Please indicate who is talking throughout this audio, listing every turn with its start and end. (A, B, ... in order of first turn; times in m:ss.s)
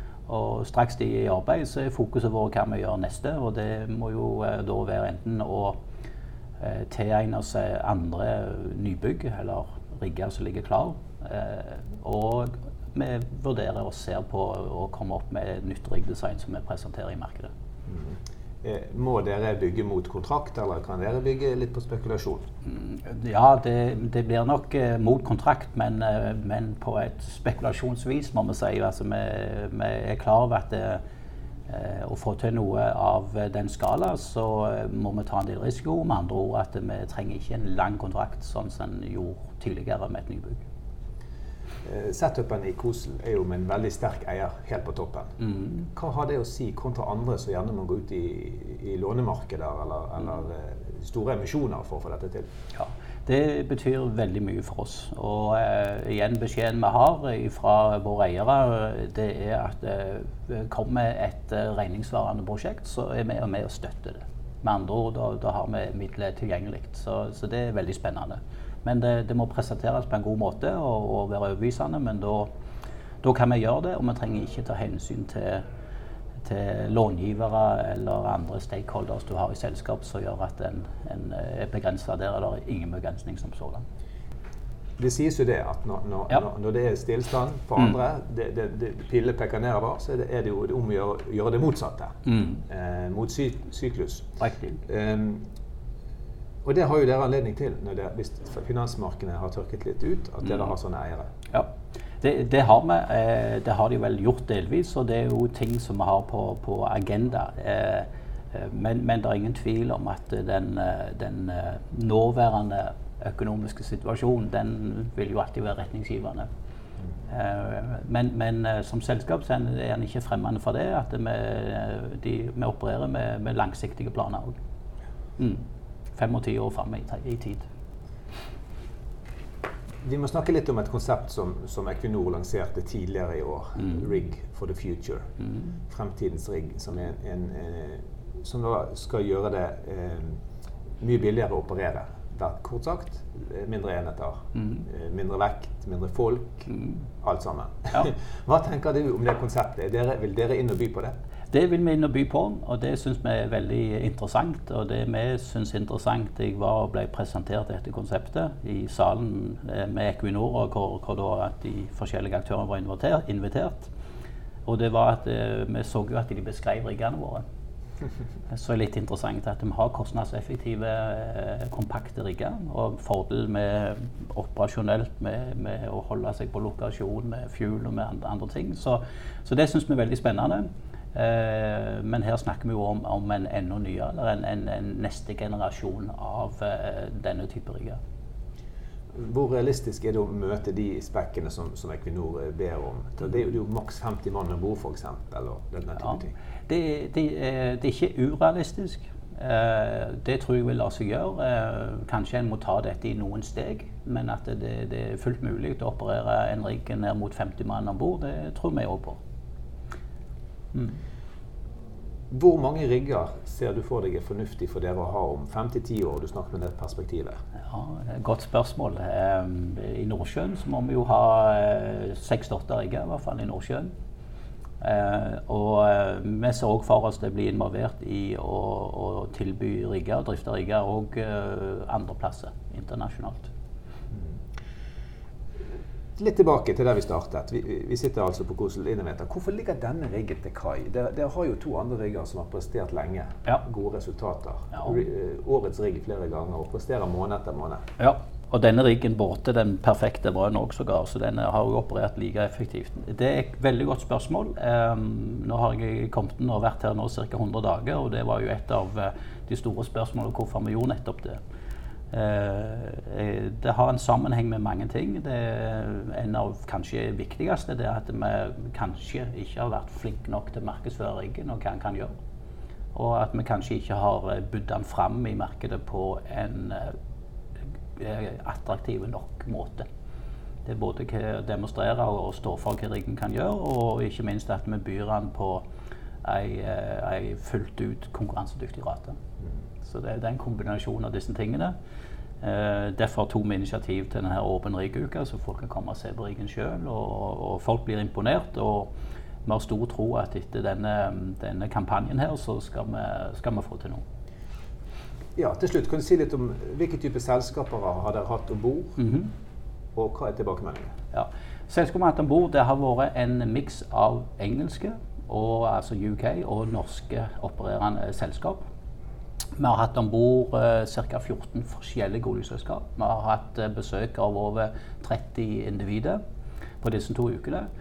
0:00.3-0:05.8 A
0:06.6-0:17.5 A
0:17.9-0:22.4 B
0:22.7-0:31.0 A
0:31.7-0:40.6 A
0:41.8-0:45.3 B
0:45.4-0:45.9 A
0:45.9-0:52.5 B
0:52.8-1:12.5 A
1:13.2-1:15.6 A
1:16.4-1:23.8 A
1:25.0-1:34.3 B
1:32.3-1:32.6 A
1:34.4-1:34.8 A
1:34.8-1:35.4 B
1:36.6-1:41.3 B
1:41.5-1:56.5 A
1:57.3-2:04.6 A
2:05.4-2:05.6 A
2:06.2-2:07.6 A
2:10.0-2:15.3 B
2:15.9-2:20.4 B
2:21.0-2:26.7 B
2:24.6-2:24.8 A
2:26.7-2:27.0 A
2:27.2-2:31.1 B
2:31.5-2:43.9 A
2:44.7-2:47.4 A
2:48.5-3:08.0 A
3:09.1-3:16.3 B
3:16.0-3:29.2 A
3:32.3-3:37.4 B
3:37.7-3:43.9 A
3:44.8-3:53.5 A
3:56.2-4:07.8 B
4:08.0-4:21.4 A
4:22.1-4:32.2 A
4:32.9-4:36.9 A
4:38.0-4:39.9 A
4:40.7-4:45.6 A
4:46.2-4:49.2 A
4:49.8-4:51.7 A
4:52.4-4:58.9 A
4:59.4-5:04.0 A
5:05.4-5:09.0 B
5:09.0-5:09.3 A
5:10.0-5:10.9 B
5:11.1-5:18.6 A
5:19.6-5:26.2 A
5:26.8-5:27.7 A